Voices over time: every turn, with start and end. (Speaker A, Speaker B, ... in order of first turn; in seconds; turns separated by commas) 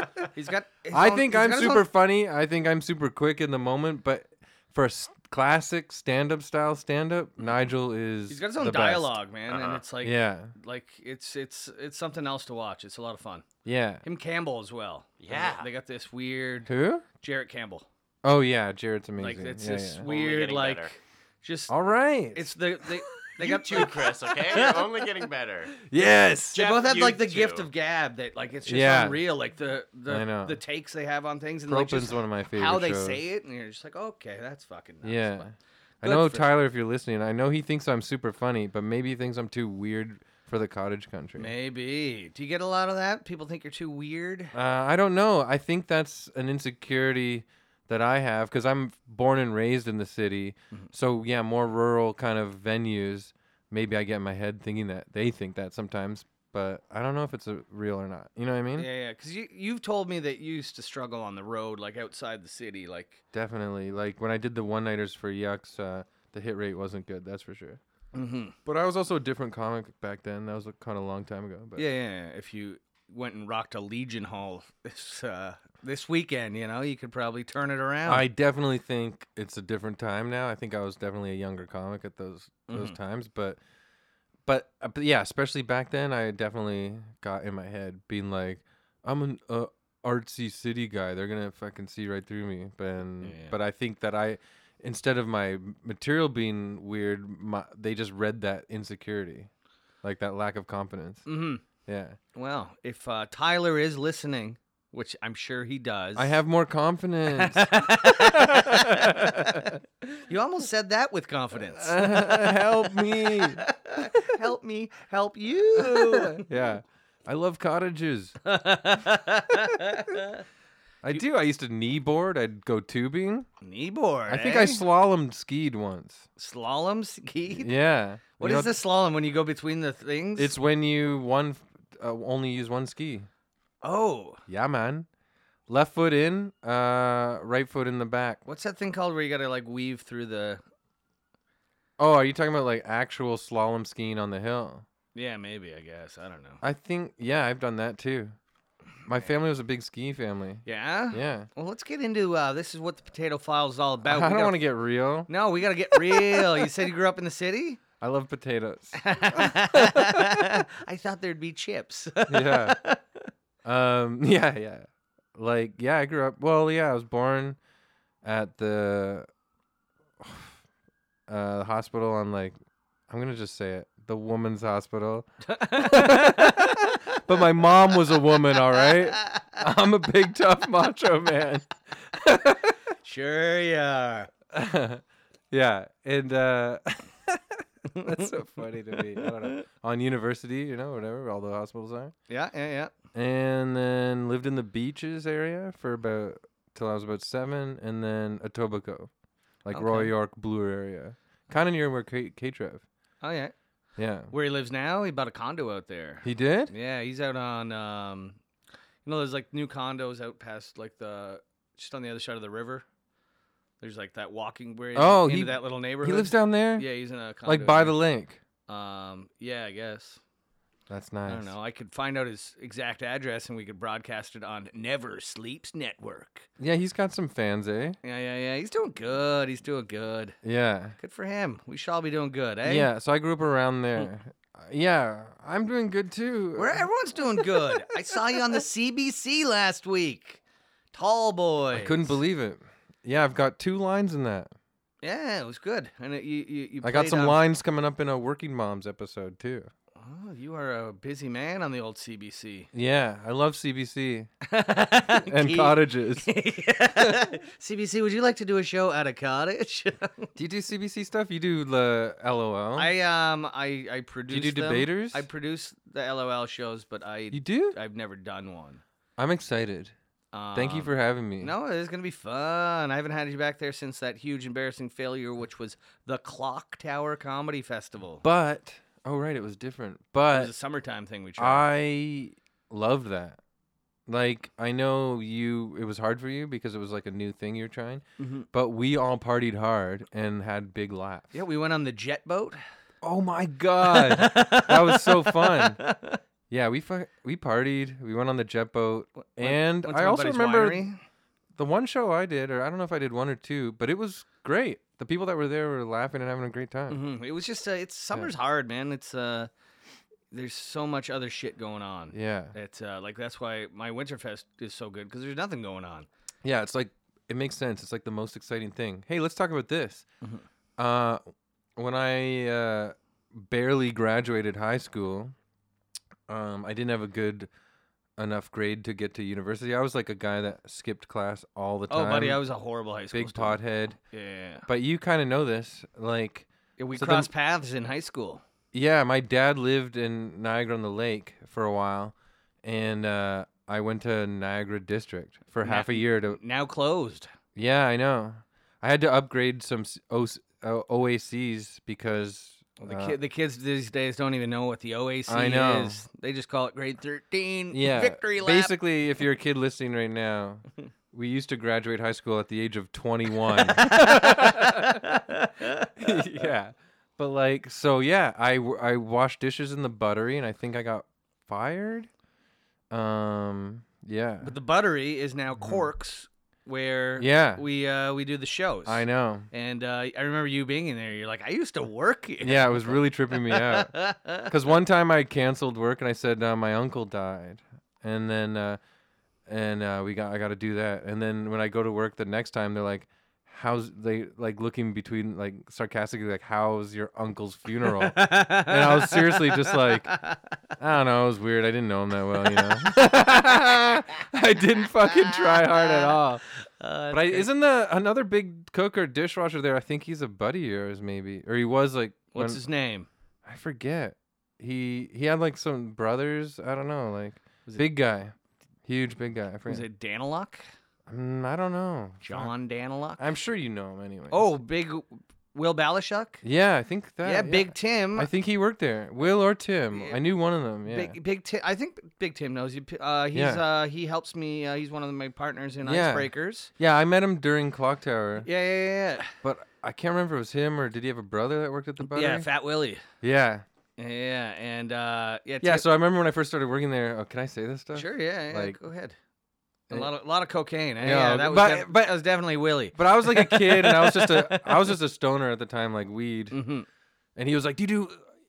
Speaker A: 0.3-1.9, Speaker B: 0.9-9.2, Speaker A: 8.3-13.4, Speaker C: 9.5-9.8, Speaker B: 10.0-10.5, Speaker B: 13.6-14.0, Speaker A: 14.0-17.9, Speaker C: 15.2-15.7, Speaker B: 16.7-17.0, Speaker B: 18.2-20.0, Speaker A: 19.2-21.7, Speaker C: 20.0-20.9, Speaker B: 21.7-22.5, Speaker A: 22.3-25.1, Speaker C: 23.4-25.8, Speaker B: 25.8-26.6, Speaker A: 26.5-35.5, Speaker C: 26.5-27.7, Speaker B: 28.6-29.2, Speaker B: 30.1-30.6, Speaker B: 31.7-33.2, Speaker B: 35.0-41.5, Speaker A: 36.0-36.5, Speaker A: 41.4-44.5, Speaker B: 44.5-58.9, Speaker A: 58.8-63.2, Speaker B: 63.3-67.8, Speaker A: 68.1-68.5, Speaker B: 68.6-71.8, Speaker A: 71.8-78.2, Speaker B: 78.0-83.6, Speaker A: 82.7-83.0, Speaker B: 84.5-99.5, Speaker A: 93.2-93.5, Speaker B: 100.0-101.2, Speaker A: 101.2-101.6, Speaker B: 101.8-102.2, Speaker A: 102.3-106.4, Speaker B: 106.2-109.8, Speaker A: 107.3-109.7, Speaker A: 110.2-116.4, Speaker B: 111.6-114.4, Speaker B: 115.7-118.4, Speaker A: 118.4-120.4, Speaker B: 121.0-123.5, Speaker A: 123.6-124.8, Speaker B: 124.3-126.3, Speaker A: 126.4-127.7, Speaker B: 127.5-128.8, Speaker A: 128.4-130.5, Speaker B: 130.4-133.3, Speaker A: 133.8-134.4, Speaker B: 134.5-135.1, Speaker B: 135.7-138.4, Speaker A: 138.4-140.6, Speaker B: 142.0-144.8, Speaker A: 145.1-146.6, Speaker B: 146.6-148.3, Speaker B: 149.1-151.5, Speaker A: 150.6-154.6, Speaker B: 154.0-155.3, Speaker A: 155.3-157.8, Speaker B: 155.9-156.7, Speaker B: 158.0-160.6, Speaker A: 158.9-163.0, Speaker B: 162.3-162.8, Speaker B: 163.6-167.6, Speaker B: 168.2-169.3, Speaker B: 170.2-170.6, Speaker B: 171.3-172.5, Speaker B: 173.1-182.8, Speaker A: 175.4-177.2, Speaker A: 178.8-179.4, Speaker A: 183.0-184.3, Speaker B: 184.5-192.1, Speaker A: 187.9-188.3, Speaker A: 189.0-189.6, Speaker A: 192.3-192.9, Speaker B: 193.1-199.1, Speaker B: 199.6-202.8, Speaker A: 199.7-200.1, Speaker A: 203.2-203.5, Speaker B: 204.0-204.3, Speaker A: 204.3-208.4, Speaker B: 206.2-206.7, Speaker A: 209.0-212.8, Speaker A: 213.8-218.0, Speaker B: 214.9-216.9, Speaker B: 217.4-218.4, Speaker A: 218.7-220.2, Speaker B: 220.9-221.5, Speaker A: 221.3-226.5, Speaker B: 226.6-228.0, Speaker A: 228.0-230.3, Speaker B: 230.4-231.0, Speaker A: 231.0-232.9, Speaker B: 232.6-236.8, Speaker A: 236.6-240.4, Speaker B: 237.4-237.8, Speaker A: 240.9-242.2, Speaker B: 241.7-244.5, Speaker A: 245.0-247.4, Speaker B: 246.8-249.7, Speaker A: 249.9-252.7, Speaker B: 252.7-254.3, Speaker A: 254.5-260.3, Speaker B: 255.1-256.3, Speaker B: 256.9-257.3, Speaker B: 260.3-262.9, Speaker A: 262.8-268.8, Speaker B: 264.3-265.2, Speaker B: 267.3-267.8, Speaker B: 269.2-269.9, Speaker A: 270.3-278.2, Speaker B: 270.5-271.5, Speaker B: 278.2-280.5, Speaker A: 280.3-281.7, Speaker B: 281.4-283.4, Speaker B: 284.1-291.4, Speaker A: 288.2-288.5, Speaker A: 291.3-292.6, Speaker B: 293.0-295.8, Speaker A: 293.9-296.2, Speaker B: 296.5-300.9, Speaker A: 299.2-301.0, Speaker B: 301.6-307.0, Speaker A: 306.9-309.5, Speaker A: 310.3-316.1, Speaker B: 312.1-312.5, Speaker B: 316.4-320.1, Speaker B: 320.8-321.2, Speaker B: 321.8-325.3, Speaker B: 326.3-327.5, Speaker B: 328.2-332.4, Speaker A: 331.9-334.7, Speaker B: 333.1-334.0, Speaker B: 334.6-337.3, Speaker A: 336.8-338.4, Speaker B: 338.7-346.4, Speaker A: 345.6-347.3, Speaker B: 347.6-353.2, Speaker A: 352.8-358.7, Speaker B: 355.3-356.0, Speaker B: 357.7-365.0, Speaker A: 363.5-366.3, Speaker B: 366.0-372.1, Speaker B: 372.9-374.5, Speaker A: 374.4-384.5, Speaker B: 377.2-377.6, Speaker B: 378.9-379.5, Speaker B: 382.4-388.8, Speaker B: 389.5-400.1, Speaker A: 397.9-400.4, Speaker B: 400.8-406.4, Speaker A: 402.4-403.1, Speaker A: 405.0-407.5, Speaker B: 407.1-412.6, Speaker A: 412.3-413.1, Speaker B: 413.4-418.3, Speaker B: 418.9-419.9, Speaker A: 419.7-420.6, Speaker B: 421.1-422.5, Speaker A: 422.2-423.2, Speaker B: 423.2-424.5, Speaker A: 424.3-426.4, Speaker B: 426.4-431.1, Speaker A: 427.2-428.3, Speaker A: 429.9-430.2, Speaker A: 430.9-436.7, Speaker B: 433.3-433.6, Speaker B: 435.8-438.5, Speaker A: 438.4-439.3, Speaker B: 439.4-442.5, Speaker A: 442.0-443.0, Speaker B: 443.2-443.6, Speaker A: 444.0-445.9, Speaker B: 445.6-448.8, Speaker A: 447.9-449.1, Speaker A: 449.9-455.0, Speaker B: 451.0-452.2, Speaker B: 452.9-456.6, Speaker A: 456.5-456.9, Speaker B: 457.4-458.2